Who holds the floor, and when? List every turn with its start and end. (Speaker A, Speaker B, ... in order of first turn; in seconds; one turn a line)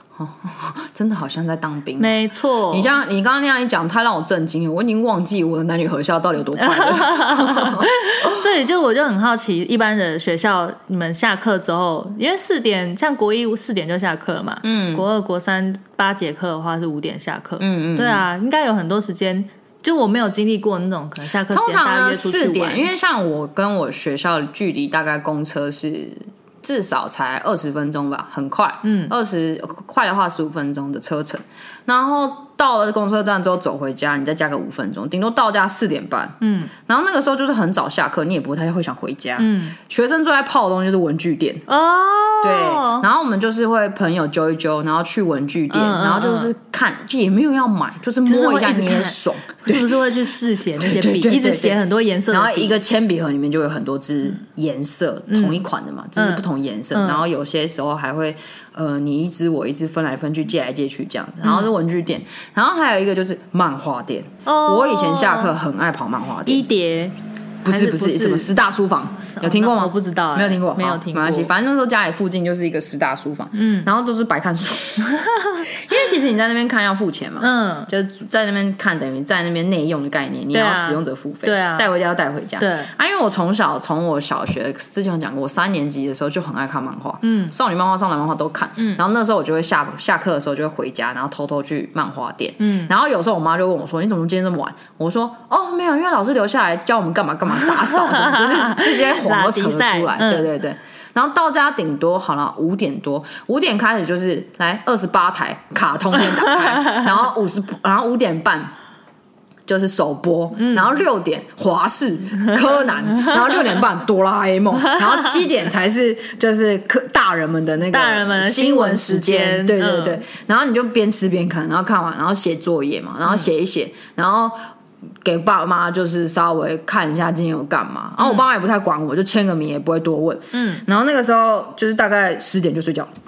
Speaker A: 0.1-2.2
Speaker B: 2.0-2.9
Speaker A: 2.7-8.4
Speaker B: 6.6-22.9
Speaker A: 14.6-15.0
Speaker A: 17.6-18.2
Speaker A: 21.5-41.6
Speaker B: 28.8-29.1
Speaker B: 36.4-36.7
Speaker B: 39.4-39.8
Speaker B: 41.7-43.1
Speaker A: 42.4-49.9
Speaker B: 45.7-46.5
Speaker B: 48.2-52.8
Speaker A: 50.8-51.8
Speaker A: 52.3-66.7
Speaker B: 55.3-55.6
Speaker B: 56.1-57.2
Speaker B: 61.4-61.7
Speaker B: 64.5-65.5
Speaker B: 66.5-67.1
Speaker A: 67.6-108.7
Speaker B: 67.7-68.5
Speaker B: 69.3-71.5
Speaker B: 73.5-73.9
Speaker B: 75.2-75.7
Speaker B: 77.4-77.9
Speaker B: 80.5-81.9
Speaker B: 82.6-82.9
Speaker B: 87.2-87.5
Speaker B: 88.8-89.0
Speaker B: 92.6-92.9
Speaker B: 97.7-100.5
Speaker B: 106.4-107.0
Speaker A: 109.7-124.6
Speaker B: 110.5-110.9
Speaker B: 117.9-120.2
Speaker A: 125.2-133.1
Speaker B: 128.2-128.4
Speaker B: 130.5-130.8